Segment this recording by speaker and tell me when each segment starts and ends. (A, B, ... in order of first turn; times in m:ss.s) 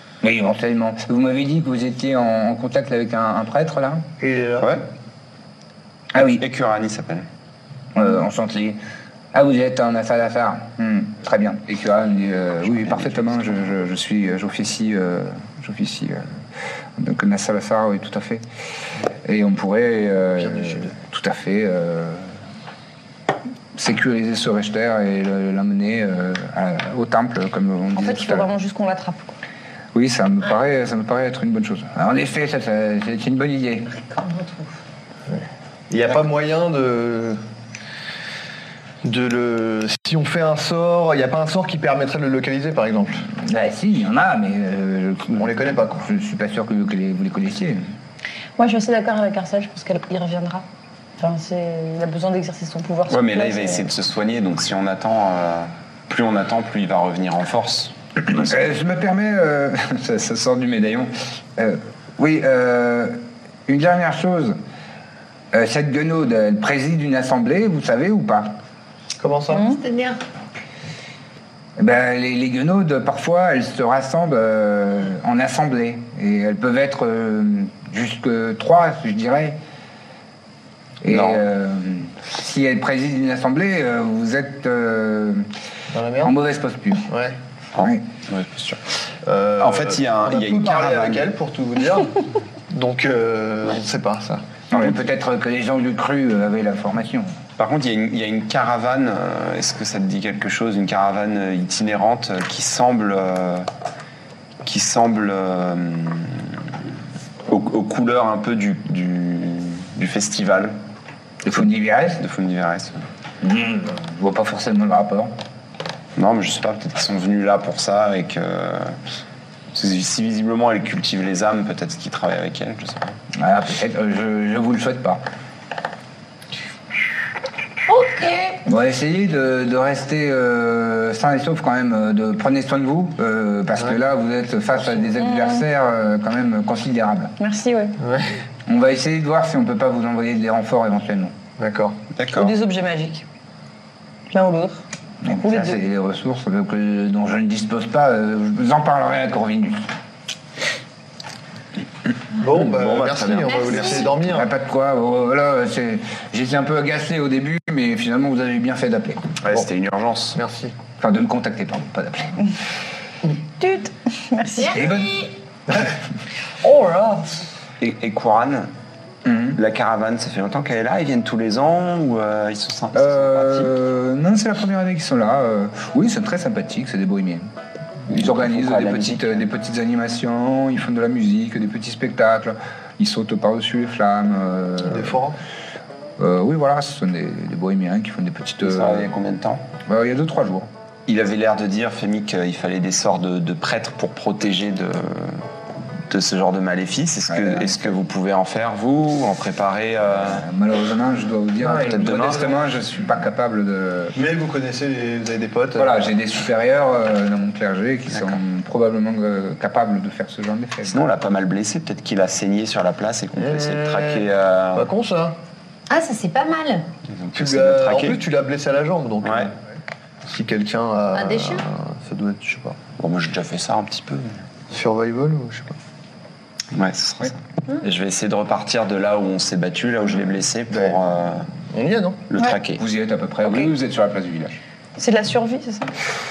0:00.2-0:04.1 A
0:04.2-0:04.8 B
0:06.1-0:06.4 A
0:06.2-0:07.3 C
0:08.0-0:08.8 A
0:09.3-0:16.3 A
0:12.6-0:13.6 C
0:17.0-0:18.4 A
0:19.2-0:22.3 A
0:20.4-0:21.0 B
0:23.8-0:28.5 A
0:28.0-0:29.4 D
0:29.9-0:33.9 A
0:33.9-0:34.8 E
0:35.3-0:37.4 B
0:39.0-0:43.3 B
0:43.3-0:47.8 A
0:45.4-0:46.1 B
0:48.6-0:50.6 D
0:51.2-0:53.9 D
0:53.1-0:57.9 C
0:58.2-1:04.6 A
1:05.5-1:08.5 A
1:09.2-1:09.7 B
1:09.5-1:09.8 D
1:09.6-1:10.2 E
1:11.8-1:19.6 A
1:21.0-1:25.5 A
1:21.1-1:21.5 C
1:25.9-1:26.4 B
1:26.2-1:27.1 A
1:27.1-1:27.4 B
1:27.7-1:28.8 C
1:29.2-1:34.4 B
1:29.6-1:31.3 C
1:34.7-1:37.3 A
1:34.7-1:35.0 C
1:37.6-1:43.7 C
1:44.6-1:46.7 C
1:47.5-1:50.8 C
1:51.4-1:52.2 A
1:52.2-1:53.0 C
1:53.4-1:55.3 A
1:56.2-1:59.0 C
1:59.7-2:03.2 C
2:03.4-2:05.2 A
2:07.9-2:08.6 E
2:08.6-2:17.3 A
2:15.2-2:15.6 D
2:17.4-2:18.0 D
2:18.0-2:18.4 B
2:18.7-2:21.3 A
2:21.6-2:22.0 B
2:22.2-2:22.6 C
2:22.3-2:23.2 D
2:24.3-2:24.8 D
2:25.2-2:29.8 A
2:25.4-2:25.8 D
2:32.4-2:34.5 B
2:32.4-2:34.1 C
2:33.4-2:34.1 E
2:34.2-2:39.3 A
2:39.4-2:40.4 C
2:40.4-2:40.7 B
2:41.0-2:42.5 A
2:43.6-2:44.8 D
2:44.6-2:45.3 E
2:44.7-2:45.1 A
2:46.6-2:47.4 D
2:47.8-2:48.7 C
2:49.2-2:49.6 A
2:49.6-2:53.7 C
2:52.9-2:57.5 A
2:58.1-2:59.5 C
2:58.1-3:05.2 A
3:04.8-3:05.4 B
3:06.2-3:09.1 A
3:08.6-3:09.7 C
3:09.9-3:10.7 A
3:11.1-3:15.4 C
3:16.1-3:20.5 C
3:17.3-3:18.0 A
3:20.2-3:24.2 A
3:21.6-3:22.5 C
3:24.2-3:26.1 B
3:25.8-3:31.0 A
3:30.8-3:34.9 C
3:33.4-3:35.4 B
3:35.9-3:36.9 E
3:37.1-3:38.2 C
3:37.4-3:39.6 B
3:39.2-3:39.5 C
3:40.3-3:42.8 B
3:41.1-3:41.6 E
3:43.0-3:44.4 C
3:44.7-3:45.8 B
3:46.7-3:51.5 C
3:50.7-3:51.0 B
3:51.7-3:52.2 B
3:52.3-3:52.8 C
3:52.8-3:54.6 A
3:55.0-3:55.9 D